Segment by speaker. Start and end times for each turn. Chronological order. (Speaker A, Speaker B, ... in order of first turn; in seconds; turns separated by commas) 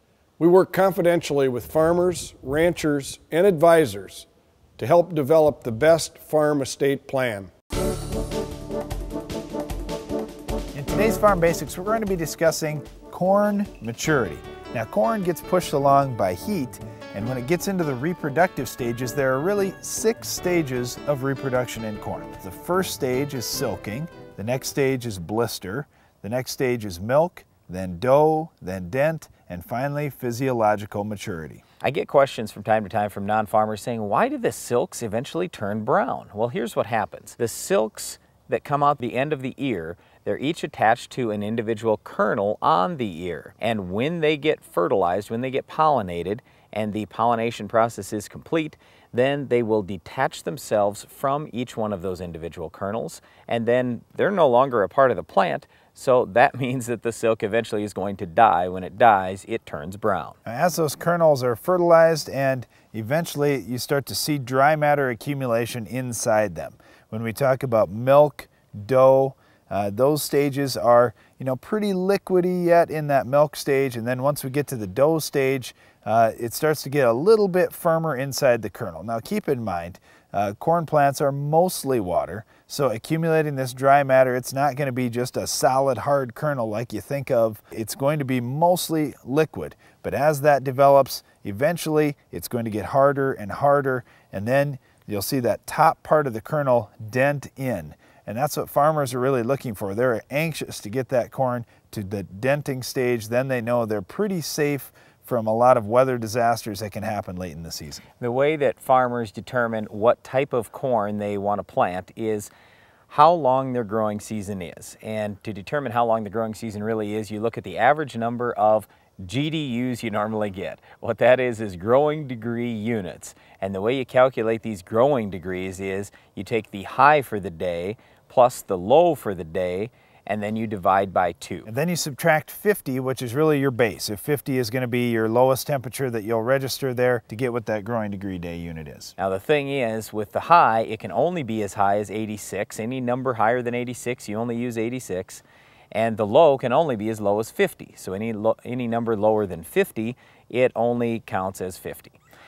Speaker A: 0.4-4.3, Speaker A: 4.8-7.5, Speaker B: 10.7-31.6, Speaker C: 31.8-60.4, Speaker B: 60.5-108.0, Speaker C: 108.2-112.5, Speaker C: 113.1-131.7, Speaker B: 131.7-139.1, Speaker C: 139.2-152.2